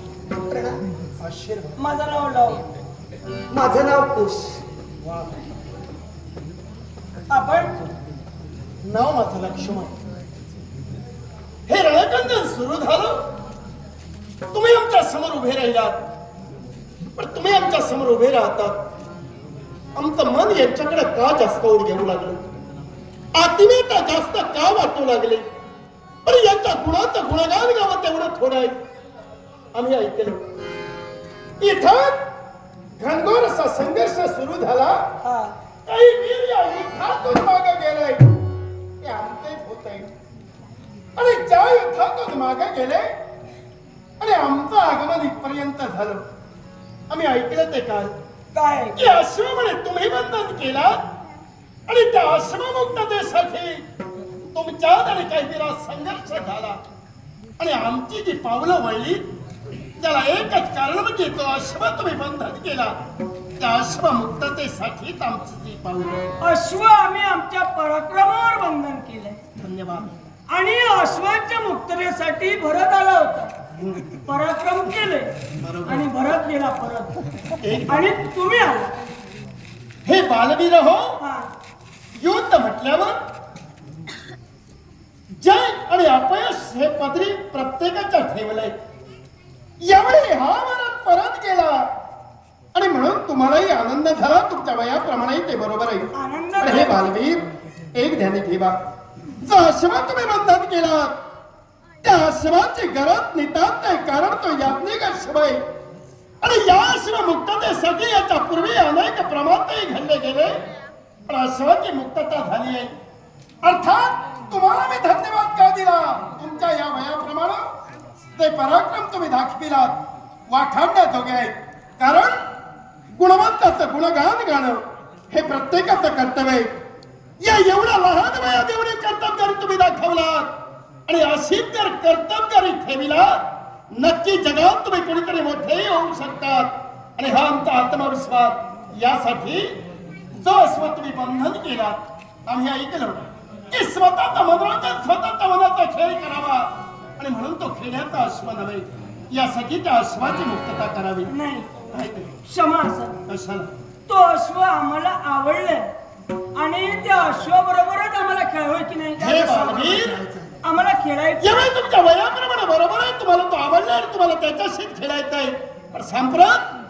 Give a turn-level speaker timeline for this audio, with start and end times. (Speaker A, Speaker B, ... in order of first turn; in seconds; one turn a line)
Speaker A: 0.5-0.8
Speaker B: 1.2-1.8
Speaker C: 1.8-2.6
Speaker A: 3.5-4.6
Speaker B: 5.0-5.3
Speaker C: 7.3-7.7
Speaker B: 8.8-9.9
Speaker B: 11.7-13.2
Speaker B: 14.5-16.0
Speaker B: 17.2-18.8
Speaker B: 20.0-22.5
Speaker B: 23.4-25.4
Speaker B: 26.2-28.8
Speaker B: 29.7-30.4
Speaker B: 31.6-32.2
Speaker B: 33.0-35.0
Speaker C: 35.2-35.5
Speaker B: 35.9-38.2
Speaker B: 39.0-40.1
Speaker B: 41.2-43.1
Speaker B: 44.2-46.2
Speaker B: 47.1-48.1
Speaker C: 48.5-49.1
Speaker B: 49.0-51.0
Speaker B: 51.9-53.8
Speaker B: 54.5-56.8
Speaker B: 57.6-59.2
Speaker B: 60.0-63.0
Speaker B: 63.6-66.4
Speaker C: 66.4-69.4
Speaker B: 69.6-70.1
Speaker C: 70.5-73.5
Speaker B: 73.8-74.2
Speaker C: 74.2-75.3
Speaker B: 75.6-76.1
Speaker C: 75.9-77.1
Speaker B: 77.6-78.2
Speaker C: 77.9-78.9
Speaker B: 80.1-81.2
Speaker C: 81.2-81.5
Speaker B: 82.2-83.2
Speaker B: 85.4-88.7
Speaker B: 89.8-91.9
Speaker B: 92.7-97.4
Speaker C: 96.1-97.0
Speaker B: 97.9-98.8
Speaker B: 99.4-101.1
Speaker B: 102.0-105.6
Speaker B: 106.4-110.6
Speaker B: 111.3-112.9
Speaker B: 113.6-117.7
Speaker B: 118.4-120.0
Speaker B: 120.5-122.4
Speaker B: 123.2-126.7
Speaker B: 127.4-130.5
Speaker B: 131.1-133.4
Speaker B: 133.9-139.7
Speaker B: 140.4-146.7
Speaker B: 147.2-151.3
Speaker C: 151.3-151.8
Speaker B: 151.9-152.3
Speaker C: 152.4-153.2
Speaker B: 153.3-153.7
Speaker C: 154.1-155.9
Speaker C: 156.6-159.8
Speaker B: 159.2-160.2
Speaker A: 159.3-160.5
Speaker C: 160.6-161.5
Speaker B: 161.4-166.7